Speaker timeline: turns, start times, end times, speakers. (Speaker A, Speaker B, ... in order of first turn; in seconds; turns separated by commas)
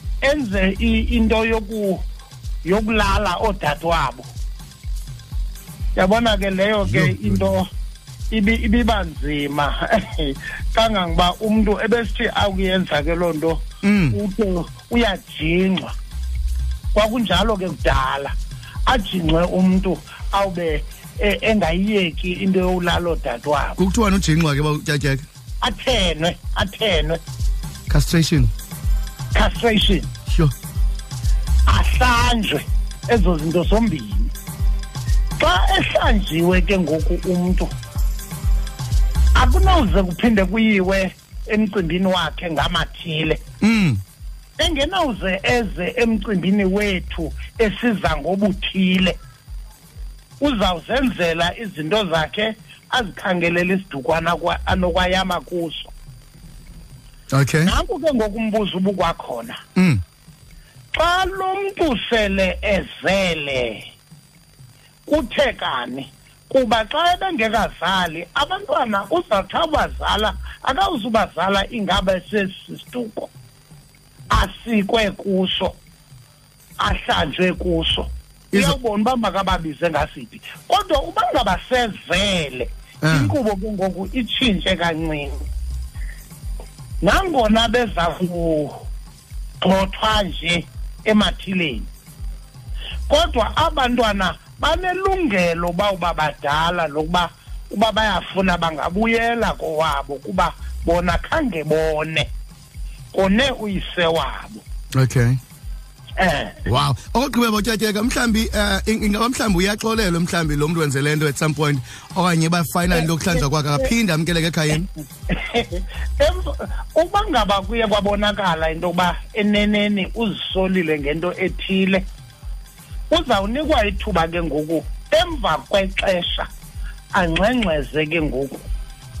Speaker A: 0.2-2.0, Speaker A: 2.6-4.3, Speaker A: 5.9-7.7, Speaker B: 6.8-7.5, Speaker A: 8.3-13.6, Speaker B: 13.8-14.2, Speaker A: 14.1-15.9, Speaker A: 16.9-18.3, Speaker A: 18.9-23.8, Speaker B: 23.8-25.2, Speaker A: 25.6-27.2, Speaker B: 27.9-28.5, Speaker A: 29.3-30.1, Speaker B: 30.3-30.5, Speaker A: 31.7-34.3, Speaker A: 35.4-37.7, Speaker A: 39.3-43.4, Speaker B: 43.6-44.0, Speaker A: 44.6-49.1, Speaker A: 50.4-55.9, Speaker B: 57.3-57.7, Speaker A: 57.6-59.6, Speaker B: 59.8-60.0, Speaker A: 60.9-63.9, Speaker A: 65.0-73.3, Speaker A: 74.3-75.8, Speaker A: 76.8-85.4, Speaker B: 78.5-78.8, Speaker B: 83.0-83.3, Speaker A: 87.0-88.8, Speaker A: 89.6-91.9, Speaker A: 93.1-102.3, Speaker A: 103.1-104.6, Speaker B: 104.9-105.4, Speaker A: 106.2-106.6, Speaker B: 106.6-114.9, Speaker A: 112.9-113.9, Speaker A: 115.3-122.0, Speaker A: 123.1-126.5, Speaker A: 127.1-128.7